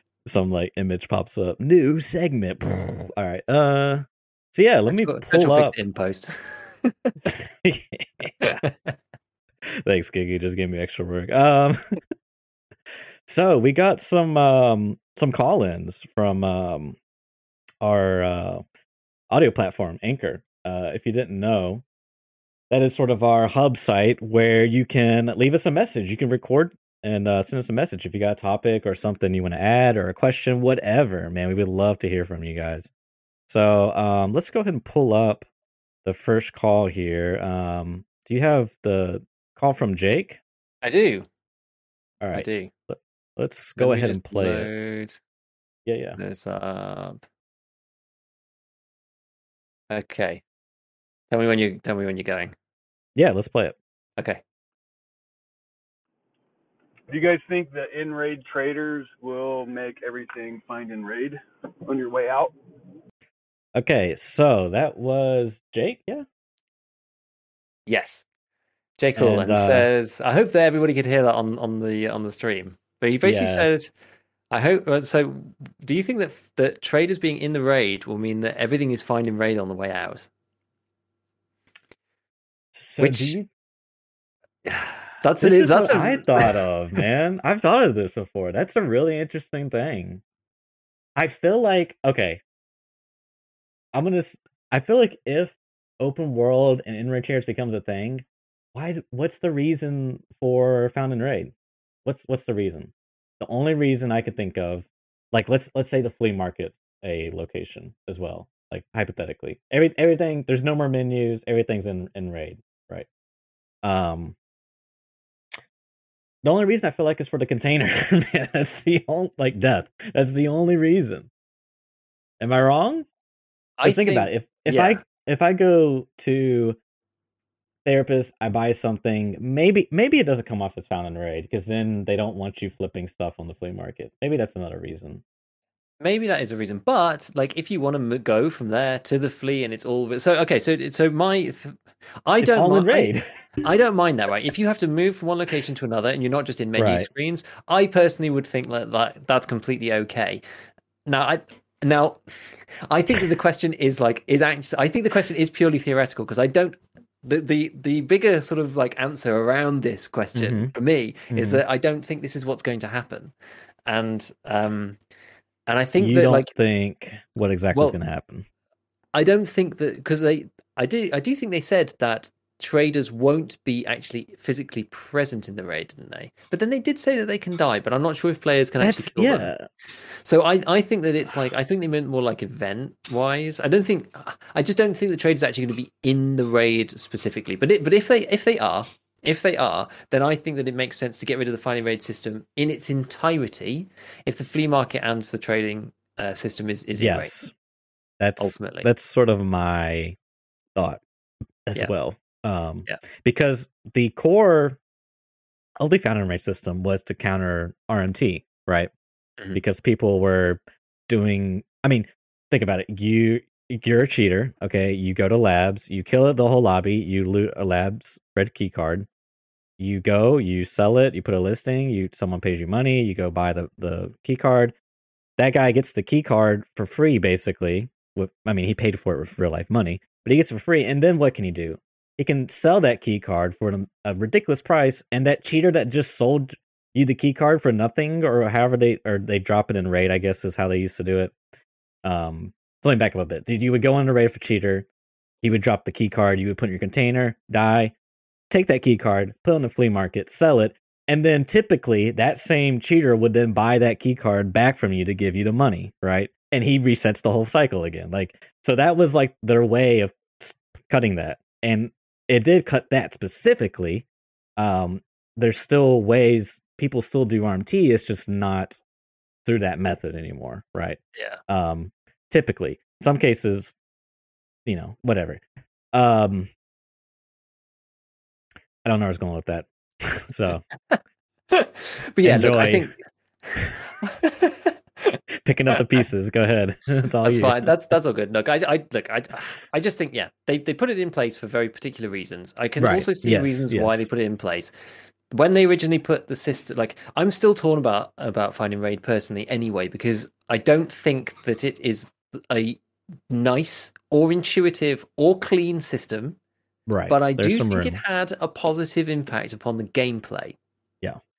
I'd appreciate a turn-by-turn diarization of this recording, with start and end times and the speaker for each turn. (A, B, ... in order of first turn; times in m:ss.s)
0:00.3-0:05.8 A
0:04.9-0:07.2 B
0:07.3-0:08.6 A
0:08.4-0:08.9 B
0:09.8-0:12.0 A
0:13.3-0:17.0 A
0:17.8-0:18.6 A
0:19.3-0:21.8 A
0:22.7-0:32.9 A
0:33.5-0:35.5 A
0:36.0-0:40.4 A
0:40.8-0:41.3 B
0:42.2-0:44.7 A
0:42.3-0:42.7 B
0:43.8-0:45.2 B
0:45.9-0:46.2 A
0:46.2-0:47.2 B
0:49.9-0:50.4 B
0:51.3-0:52.5 B
0:53.2-0:53.8 A
0:57.1-1:02.6 C
1:03.8-1:06.3 A
1:07.9-1:08.2 B
1:09.0-1:13.9 B
1:09.2-1:09.9 A
1:13.2-1:13.7 A
1:14.5-1:20.3 B
1:22.7-1:23.5 A
1:23.0-1:23.4 B
1:24.7-1:26.6 B
1:25.4-1:30.2 A
1:31.2-1:32.4 A
1:33.9-1:41.5 A
1:42.0-1:53.1 A
1:53.8-1:54.4 A
1:56.4-2:01.3 A
2:02.4-2:03.1 A
2:03.8-2:05.0 B
2:03.8-2:06.8 A
2:07.8-2:15.2 A
2:16.0-2:30.4 B
2:22.4-2:23.2 A
2:26.8-2:27.1 A
2:31.1-2:43.3 B
2:40.4-2:40.7 A
2:41.3-2:41.6 A
2:43.9-2:45.0 B
2:45.7-2:46.5 B
2:46.0-2:48.5 A
2:49.1-2:59.5 B
2:58.8-2:59.7 A
3:00.2-3:17.3 B
3:17.0-3:17.5 A
3:18.2-3:20.2 A
3:18.4-3:18.9 B
3:20.8-3:21.0 A
3:21.7-3:24.8 A
3:25.8-3:28.9 A
3:29.5-3:39.1 A
3:39.8-3:44.7 A
3:45.4-4:01.4 A
4:02.0-4:04.9 A
4:05.4-4:07.9 A
4:08.5-4:24.1 A
4:24.6-4:28.8 A
4:29.4-4:33.8 A
4:31.2-4:31.4 B
4:34.7-4:35.4 A
4:35.9-4:36.5 A
4:38.8-4:40.6 A
4:41.5-4:42.9 B
4:42.2-4:42.9 A
4:43.5-4:45.2 B
4:43.6-4:43.9 A
4:45.4-4:47.7 A
4:47.2-4:54.7 B
4:52.8-4:54.1 A
4:55.3-5:06.4 B
5:06.9-5:08.0 A
5:07.1-5:10.6 B